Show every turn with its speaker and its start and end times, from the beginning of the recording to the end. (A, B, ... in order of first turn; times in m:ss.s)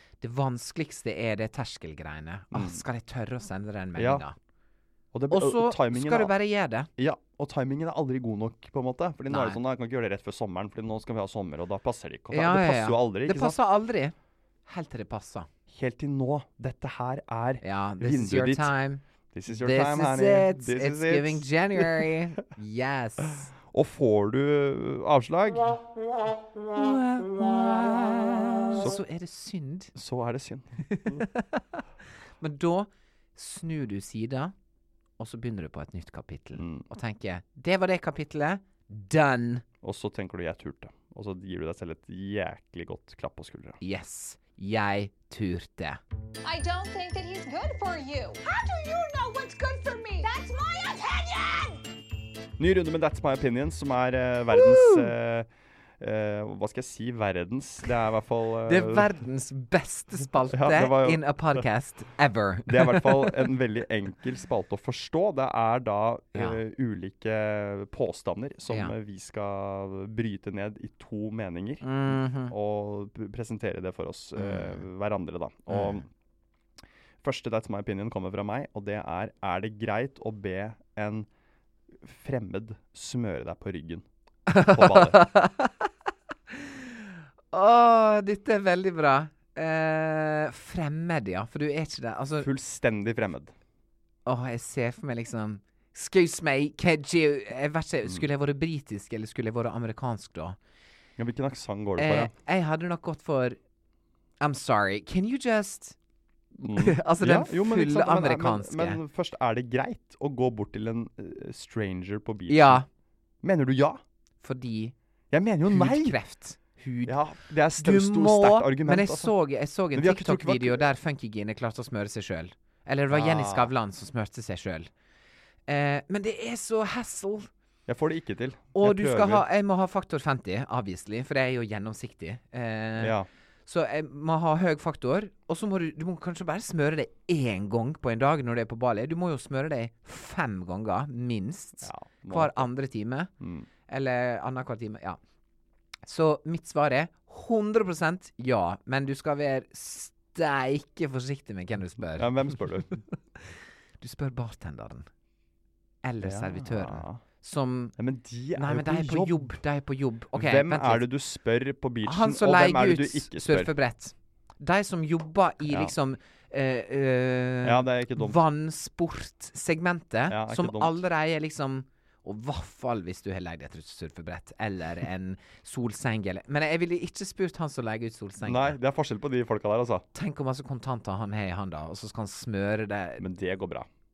0:00.2-0:04.4 A
0:02.5-0:02.8 B
0:04.0-0:04.2 B
0:05.1-0:06.3 B
0:05.3-0:06.9 A
0:07.0-0:13.6 B
0:09.3-0:09.6 A
0:12.3-0:14.1 A
0:14.7-0:15.5 A
0:15.7-0:18.7 B
0:17.6-0:23.5 A
0:19.3-0:22.1 B
0:23.7-0:25.8 B
0:26.7-0:29.9 A
0:28.7-0:29.0 B
0:30.0-0:31.2 B
0:30.9-0:31.6 A
0:32.4-0:34.5 A
0:35.2-0:39.6 A
0:36.6-0:36.8 B
0:39.8-0:43.8 B
0:43.8-0:46.0 A
0:46.4-0:51.8 C
0:52.6-0:55.5 B
0:54.8-0:55.1 A
0:56.0-0:59.1 B
0:58.7-1:03.4 A
1:00.5-1:01.6 B
1:02.7-1:16.1 B
1:06.3-1:06.6 A
1:08.7-1:09.0 A
1:11.8-1:12.5 A
1:14.4-1:14.8 A
1:15.7-1:16.0 A
1:17.2-1:21.3 B
1:22.0-1:24.1 B
1:24.5-1:25.9 A
1:24.6-1:25.2 B
1:26.5-1:26.8 A
1:27.5-1:32.5 A
1:32.4-1:33.5 B
1:34.3-1:40.6 A
1:41.2-1:42.3 B
1:42.0-1:43.6 A
1:44.4-1:46.0 A
1:46.6-1:52.8 B
1:46.7-1:49.0 A
1:52.5-1:52.9 A
1:53.4-1:54.0 B
1:54.4-1:54.9 A
1:55.3-1:56.2 B
1:55.7-1:57.2 A
1:57.1-1:59.3 B
1:57.8-2:04.9 A
1:59.9-2:00.9 B
2:03.1-2:03.7 B
2:05.7-2:07.5 A
2:07.9-2:09.4 B
2:08.8-2:23.3 A
2:13.0-2:13.3 B
2:21.8-2:22.7 B
2:23.4-2:23.7 B
2:23.9-2:25.2 A
2:26.1-2:35.1 A
2:32.1-2:33.0 B
2:36.0-2:37.9 A
2:36.2-2:37.2 B
2:38.0-2:39.6 B
2:38.6-2:41.1 A
2:40.3-2:43.7 B
2:42.0-2:58.8 A
2:45.7-2:45.9 B
2:47.6-2:48.4 B
2:50.3-2:50.9 B
2:58.4-3:00.1 B
3:00.1-3:03.2 A
3:03.2-3:03.9 B